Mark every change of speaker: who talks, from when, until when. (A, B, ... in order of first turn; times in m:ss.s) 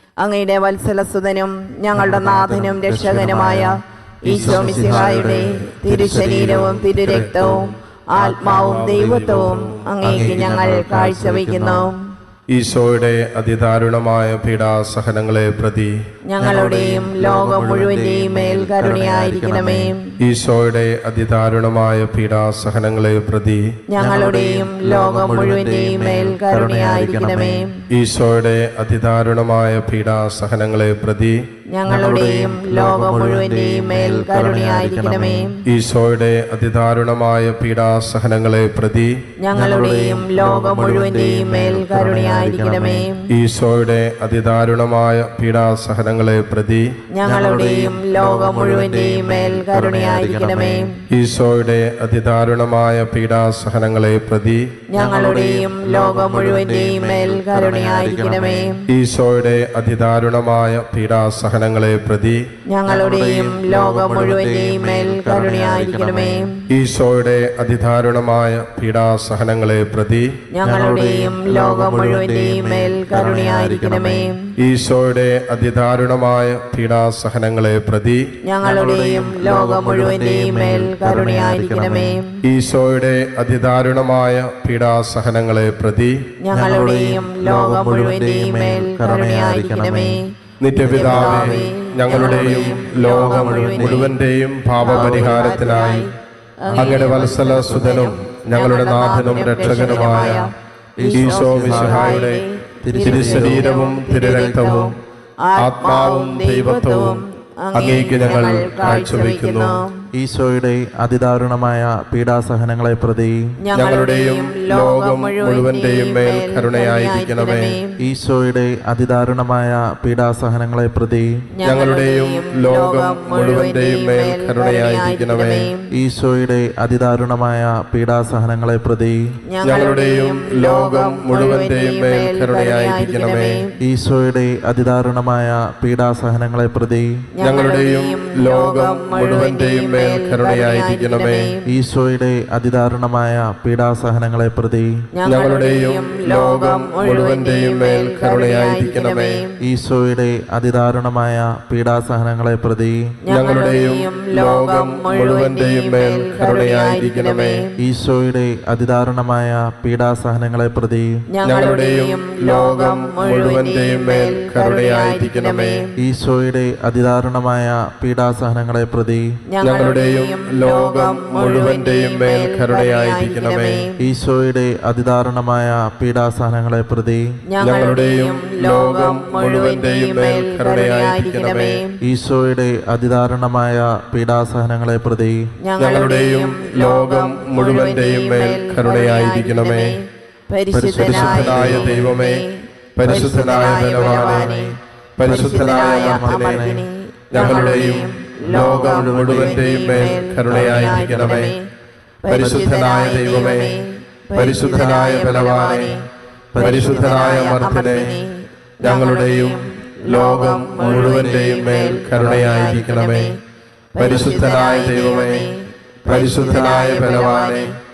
0:00.2-0:12.0 A
0:01.9-0:03.8 B
0:04.3-0:07.6 B
0:06.8-0:07.6 C
0:08.2-0:10.2 C
0:08.2-0:09.3 B
0:10.0-0:11.9 B
0:12.5-0:16.0 C
0:16.3-0:20.0 A
0:16.4-0:19.9 B
0:20.2-0:23.6 C
0:23.9-0:27.8 A
0:24.0-0:27.7 B
0:27.9-0:31.4 C
0:31.7-0:35.6 A
0:31.9-0:35.5 B
0:35.7-0:39.1 C
0:39.4-0:43.3 A
0:39.5-0:43.1 B
0:43.3-0:46.9 C
0:47.2-0:51.0 A
0:47.2-0:50.9 B
0:51.1-0:54.7 C
0:54.9-0:58.8 A
0:55.0-0:58.8 B
0:58.9-1:02.4 C
1:02.7-1:06.6 A
1:02.9-1:06.5 B
1:06.7-1:10.3 C
1:10.6-1:14.5 A
1:10.6-1:14.4 B
1:14.6-1:18.2 C
1:18.5-1:22.4 A
1:18.6-1:22.2 B
1:22.4-1:26.2 C
1:26.4-1:30.3 A
1:26.5-1:30.2 B
1:30.6-1:36.1 C
1:30.8-1:34.1 B
1:30.8-1:34.2 A
1:34.8-1:50.0 A
1:34.9-1:35.7 B
1:36.7-1:37.2 B
1:36.8-1:40.5 C
1:41.0-1:42.3 B
1:41.1-1:42.4 C
1:42.8-1:43.8 B
1:43.0-1:44.9 C
1:45.6-1:47.2 C
1:47.8-1:49.8 C
1:50.1-1:53.5 B
1:53.6-1:58.0 A
1:53.7-1:57.8 C
1:58.0-2:01.5 B
2:01.6-2:05.9 A
2:01.6-2:05.7 C
2:05.9-2:09.3 B
2:09.5-2:13.7 A
2:09.6-2:13.6 C
2:13.8-2:17.3 B
2:17.4-2:21.7 A
2:17.4-2:21.5 C
2:21.7-2:25.0 B
2:25.2-2:29.6 A
2:25.2-2:29.4 C
2:29.6-2:33.1 B
2:33.3-2:37.8 A
2:33.3-2:37.7 C
2:37.8-2:41.2 B
2:41.3-2:46.0 A
2:41.4-2:45.8 C
2:46.0-2:49.4 B
2:49.5-2:54.1 A
2:49.6-2:53.9 C
2:54.0-2:57.4 B
2:57.5-3:02.0 A
2:57.6-3:01.8 C
3:02.0-3:05.5 B
3:05.6-3:21.7 A
3:05.8-3:10.0 C
3:10.7-3:12.2 B
3:10.9-3:12.4 C
3:13.0-3:16.7 C
3:13.0-3:14.7 B
3:15.2-3:16.8 B
3:17.3-3:21.5 C
3:17.4-3:21.5 B
3:22.2-3:33.4 A
3:22.3-3:23.8 C
3:22.3-3:22.8 B
3:24.4-3:26.0 C
3:24.7-3:25.1 B
3:26.5-3:28.2 B
3:26.6-3:28.1 C
3:28.8-3:33.3 C
3:33.9-3:37.8 A
3:34.0-3:35.5 C
3:36.1-3:37.7 C